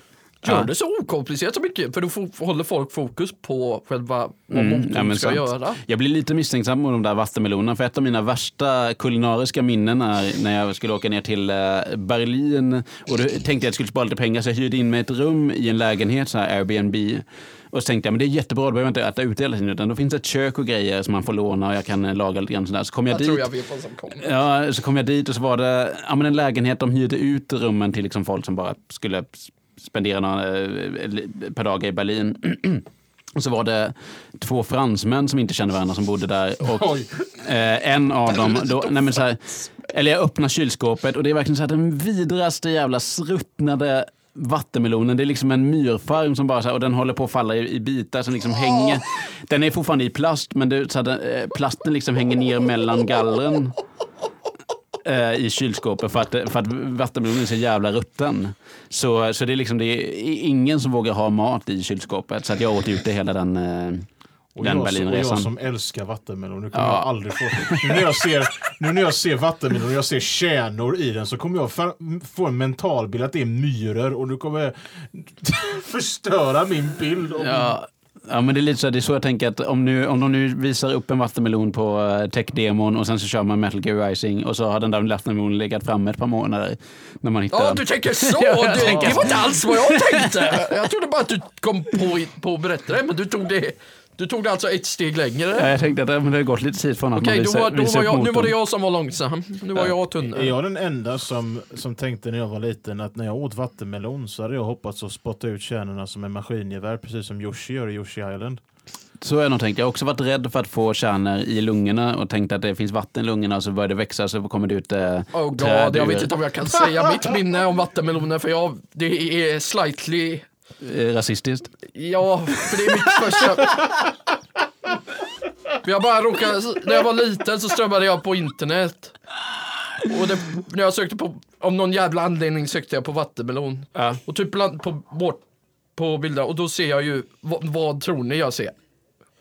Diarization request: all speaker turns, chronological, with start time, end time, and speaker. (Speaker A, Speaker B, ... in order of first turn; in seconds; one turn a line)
Speaker A: 0.4-5.8
Speaker B: 4.5-23.5
Speaker A: 23.1-24.3
Speaker B: 24.2-53.8
Speaker C: 36.7-37.1
Speaker B: 55.0-64.1
Speaker C: 64.5-77.8
Speaker B: 64.6-65.5
Speaker B: 66.7-68.0
Speaker B: 77.4-90.3
Speaker A: 87.5-95.7
Speaker C: 88.8-89.4
Speaker B: 95.5-98.5
Speaker A: 97.2-100.5
Speaker C: 100.3-108.6
Speaker B: 109.2-116.3
Speaker A: 115.3-120.5
Speaker B: 120.8-121.8
Speaker A: 121.9-124.0
Speaker A: 125.8-129.2
Speaker A: 130.1-135.4
Speaker B: 133.9-134.2
Speaker A: 136.0-138.7